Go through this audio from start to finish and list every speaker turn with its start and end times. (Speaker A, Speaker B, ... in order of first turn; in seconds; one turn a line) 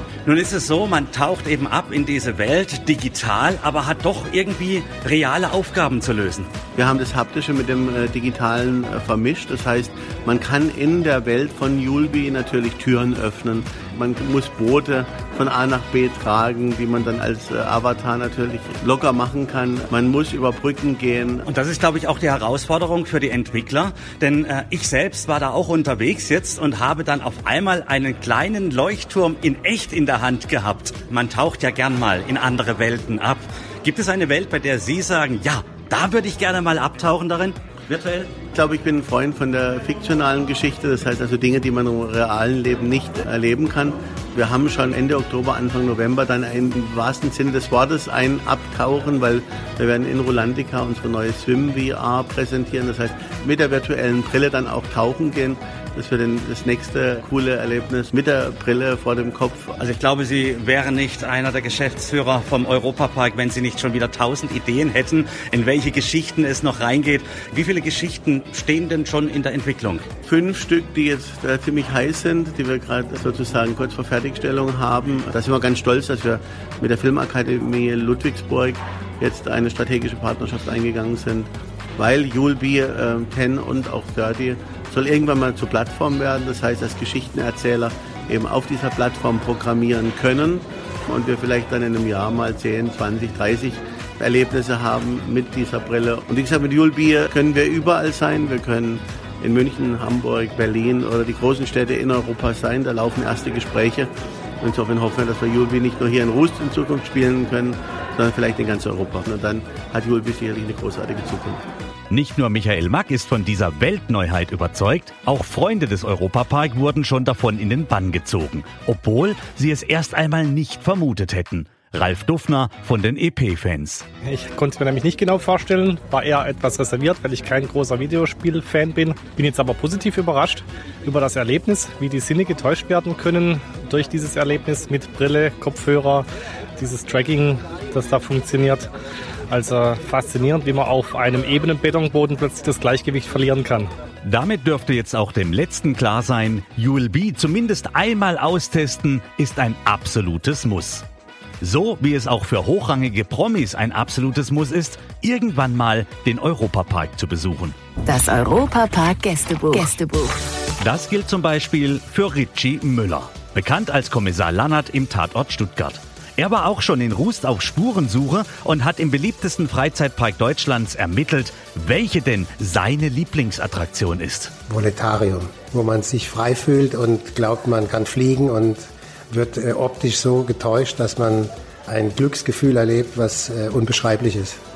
Speaker A: 0.2-6.5
Speaker B: 6.8-21.4
Speaker A: 21.4-38.4
Speaker B: 38.5-59.7
Speaker A: 59.8-70.0
Speaker B: 70.2-104.1
Speaker B: 104.6-111.6
Speaker A: 112.1-124.0
Speaker C: 124.3-136.2
Speaker C: 136.8-138.9
Speaker C: 139.5-143.9
Speaker A: 144.2-151.0
Speaker A: 151.6-157.8
Speaker D: 158.0-160.4
Speaker A: 160.8-174.5
Speaker E: 174.7-184.6